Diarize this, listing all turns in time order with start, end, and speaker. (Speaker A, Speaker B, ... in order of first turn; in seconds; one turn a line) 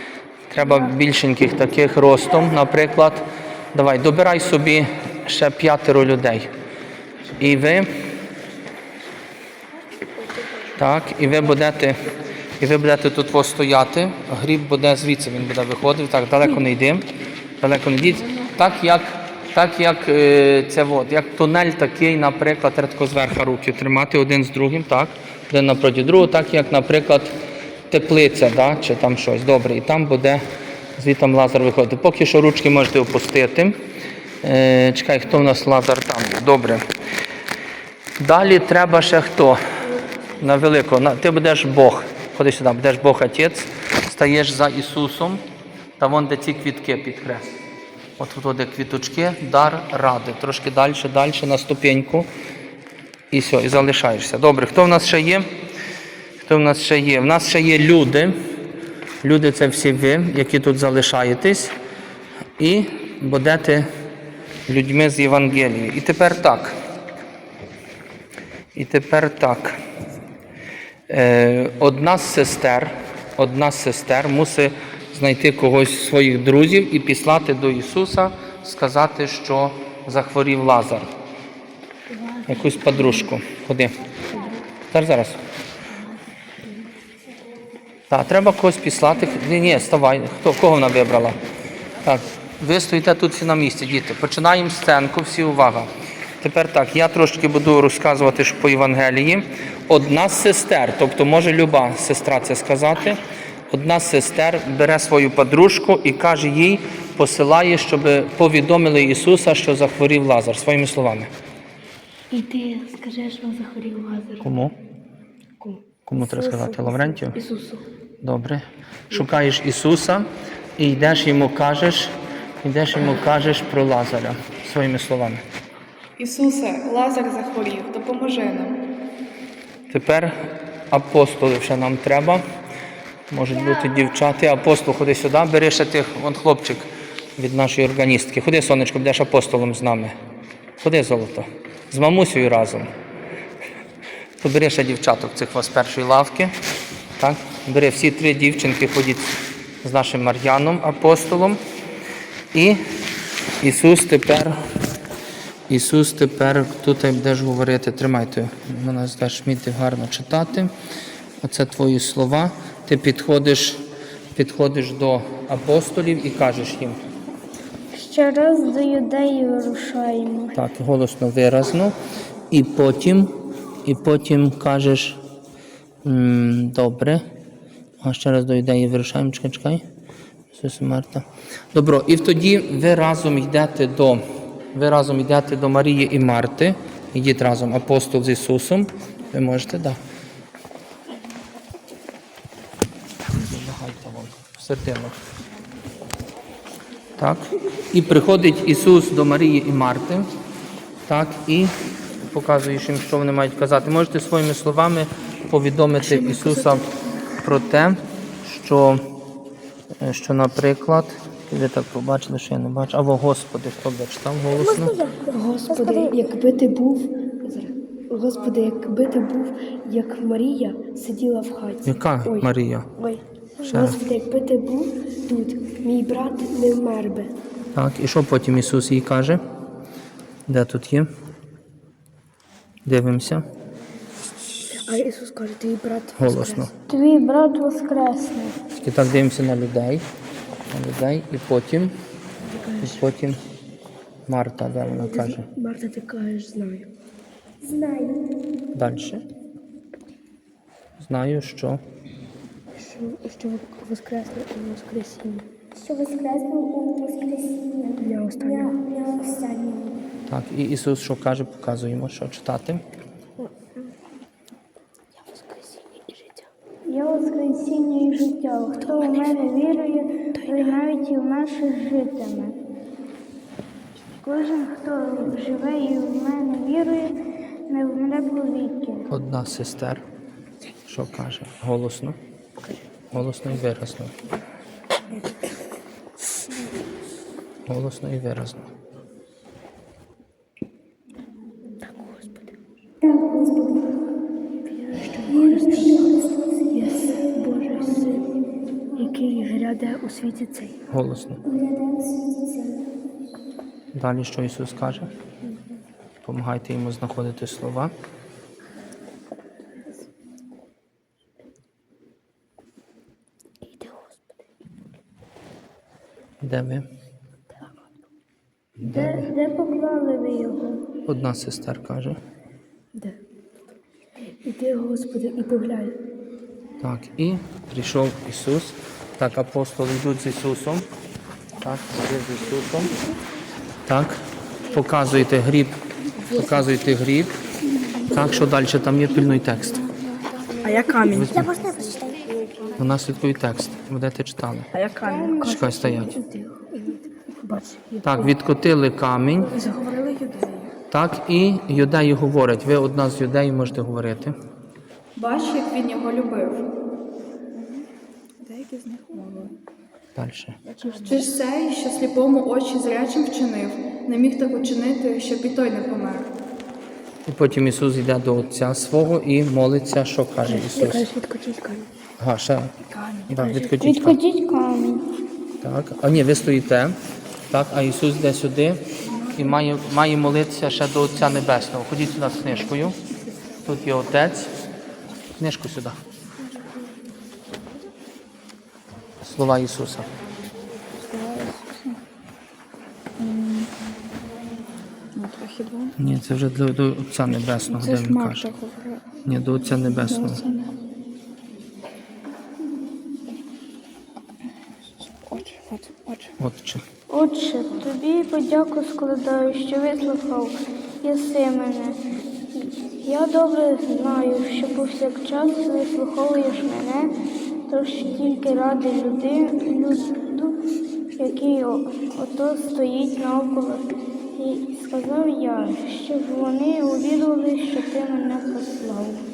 Speaker A: 0.5-6.5
Speaker A: 7.4-7.9
Speaker A: 10.8-12.0
Speaker A: 12.6-17.1
Speaker A: 17.6-27.3
Speaker A: 27.9-30.4
Speaker A: 31.0-33.8
Speaker A: 34.4-36.9
Speaker A: 38.2-39.6
Speaker A: 40.4-45.4
Speaker A: 46.0-47.5
Speaker A: 48.2-52.3
Speaker A: 53.3-55.5
Speaker A: 56.4-58.4
Speaker A: 59.2-61.7
Speaker A: 62.6-63.9
Speaker A: 64.7-66.8
Speaker A: 68.7-69.8
Speaker A: 71.1-81.1
Speaker A: 82.5-84.0
Speaker A: 84.9-85.4
Speaker A: 88.1-91.4
Speaker A: 92.0-111.3
Speaker B: 112.3-114.5
Speaker A: 114.4-114.7
Speaker B: 115.6-117.8
Speaker A: 116.0-117.4
Speaker A: 118.2-125.4
Speaker C: 126.2-128.8
Speaker A: 129.9-132.4
Speaker A: 133.3-140.2
Speaker A: 140.8-142.9
Speaker A: 144.4-146.5
Speaker A: 147.2-151.6
Speaker A: 152.5-152.8
Speaker A: 153.6-154.6
Speaker A: 155.7-160.7
Speaker A: 161.4-163.8
Speaker A: 164.3-167.0
Speaker D: 167.9-170.5
Speaker A: 170.5-171.9
Speaker A: 172.5-173.3
Speaker A: 173.8-175.2
Speaker A: 176.0-177.2
Speaker A: 178.0-179.8
Speaker A: 180.5-184.2
Speaker A: 184.7-190.0
Speaker A: 193.3-195.2
Speaker A: 197.2-200.3
Speaker A: 201.1-209.0
Speaker B: 206.0-206.8
Speaker A: 210.0-214.9
Speaker E: 214.6-216.2
Speaker B: 215.0-227.3
Speaker A: 221.8-222.9
Speaker A: 223.6-224.0
Speaker A: 227.7-229.4
Speaker A: 230.5-231.1
Speaker A: 232.8-233.5
Speaker B: 234.7-236.7
Speaker A: 236.2-236.7
Speaker D: 236.9-238.6
Speaker A: 238.8-240.0
Speaker A: 240.7-241.9
Speaker B: 242.4-243.1
Speaker A: 242.8-243.4
Speaker A: 244.3-245.5
Speaker B: 244.8-246.9
Speaker E: 247.6-248.2
Speaker A: 248.7-249.2
Speaker A: 251.0-251.8
Speaker B: 252.7-255.5
Speaker E: 255.7-260.0
Speaker B: 258.0-258.8
Speaker A: 260.3-262.8
Speaker B: 265.2-266.5
Speaker D: 266.8-272.6
Speaker D: 274.2-277.2
Speaker D: 277.7-279.1
Speaker A: 279.1-280.0
Speaker A: 280.9-282.2
Speaker A: 283.1-284.1
Speaker B: 285.1-285.5
Speaker A: 287.7-288.7
Speaker B: 291.8-292.5
Speaker E: 293.0-294.0
Speaker B: 294.6-296.1
Speaker E: 295.3-298.1
Speaker B: 296.7-298.2
Speaker B: 298.9-300.8
Speaker A: 300.9-301.4
Speaker E: 301.4-302.9
Speaker A: 303.9-305.1
Speaker A: 306.2-307.9
Speaker B: 313.7-314.2
Speaker A: 316.4-316.9
Speaker A: 318.8-319.3
Speaker D: 318.8-320.9
Speaker A: 321.1-322.2
Speaker B: 324.2-326.0
Speaker A: 326.8-330.8
Speaker A: 331.6-332.9
Speaker A: 333.9-335.7
Speaker B: 336.2-336.7
Speaker A: 336.3-337.4
Speaker A: 338.1-339.9
Speaker B: 340.6-341.6
Speaker A: 341.1-341.5
Speaker E: 341.1-342.3
Speaker A: 342.8-344.7
Speaker B: 344.7-348.4
Speaker D: 345.0-345.7
Speaker A: 345.4-346.1
Speaker A: 348.0-349.5
Speaker B: 349.4-350.6
Speaker A: 350.9-354.4
Speaker C: 355.1-356.7
Speaker C: 358.4-359.5
Speaker A: 360.1-360.6
Speaker C: 360.7-366.3
Speaker B: 360.8-361.3
Speaker A: 367.3-371.1
Speaker B: 370.4-371.9
Speaker A: 372.2-372.7
Speaker B: 372.9-373.8
Speaker A: 373.3-374.2
Speaker D: 373.8-375.1
Speaker A: 375.6-376.9
Speaker A: 377.5-383.0
Speaker A: 383.6-384.5
Speaker A: 385.4-386.0
Speaker A: 389.2-390.1
Speaker C: 391.0-392.0
Speaker C: 393.2-393.7
Speaker C: 395.1-395.9
Speaker A: 396.0-398.5
Speaker C: 397.7-399.0
Speaker A: 399.2-400.4
Speaker C: 400.1-400.7
Speaker C: 405.2-406.3
Speaker A: 406.4-406.8
Speaker D: 407.1-412.0
Speaker D: 412.5-417.1
Speaker D: 417.7-420.6
Speaker D: 421.2-429.2